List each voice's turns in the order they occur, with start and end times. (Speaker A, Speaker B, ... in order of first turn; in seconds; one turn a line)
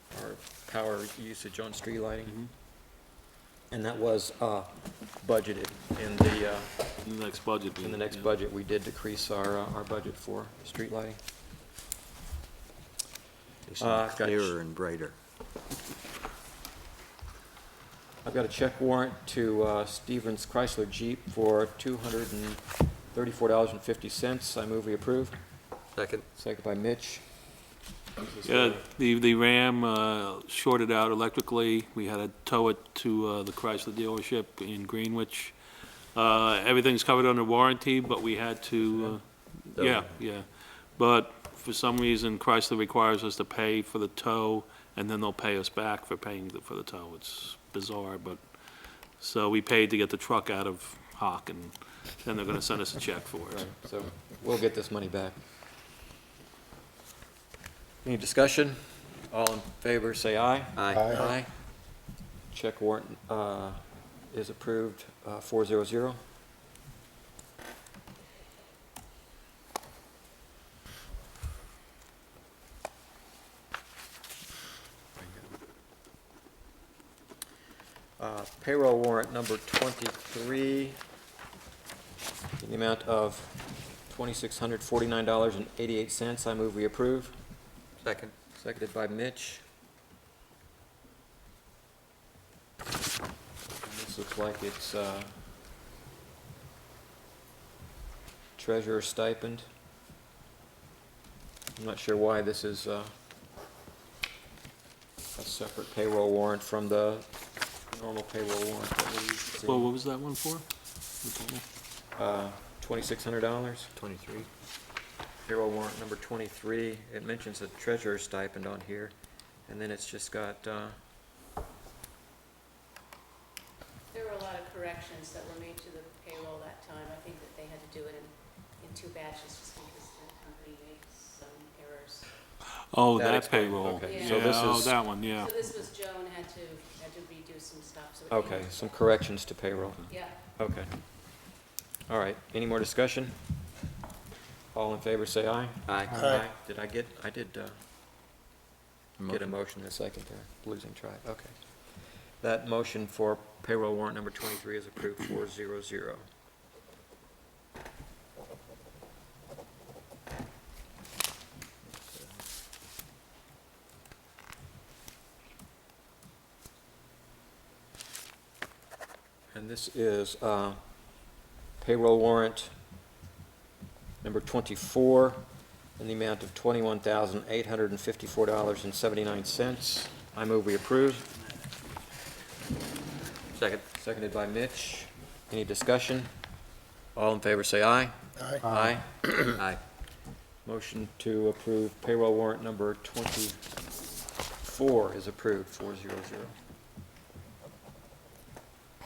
Speaker A: 0.1-2.4
Speaker A: 3.7-6.7
Speaker B: 7.0-8.3
Speaker A: 7.8-11.2
Speaker C: 13.7-15.1
Speaker A: 13.8-14.6
Speaker A: 18.2-25.4
Speaker C: 26.0-26.2
Speaker A: 26.4-27.2
Speaker A: 28.2-28.9
Speaker B: 28.4-53.7
Speaker C: 39.7-40.2
Speaker A: 53.5-55.4
Speaker A: 58.0-61.5
Speaker C: 60.7-61.2
Speaker A: 62.5-66.2
Speaker A: 78.2-81.0
Speaker A: 82.6-87.3
Speaker C: 88.0-88.3
Speaker A: 88.5-89.6
Speaker A: 93.8-95.3
Speaker A: 98.6-99.7
Speaker A: 101.8-103.1
Speaker A: 105.4-107.3
Speaker A: 107.8-109.9
Speaker B: 109.6-110.7
Speaker B: 111.2-111.6
Speaker A: 112.2-113.9
Speaker C: 114.0-114.5
Speaker A: 115.4-119.1
Speaker A: 119.7-121.0
Speaker D: 124.1-132.3
Speaker B: 132.9-135.5
Speaker A: 133.2-135.0
Speaker D: 134.0-139.1
Speaker A: 138.3-140.9
Speaker D: 140.1-140.3
Speaker A: 142.1-143.4
Speaker A: 144.7-147.8
Speaker C: 145.9-146.2
Speaker C: 149.2-149.5
Speaker A: 149.3-156.2
Speaker C: 161.9-162.2
Speaker A: 169.5-170.8
Speaker A: 171.8-172.7
Speaker A: 174.2-175.4
Speaker A: 176.0-181.3
Speaker C: 183.5-183.8
Speaker A: 183.9-186.3
Speaker A: 187.2-189.3
Speaker A: 190.7-193.6
Speaker A: 194.6-196.6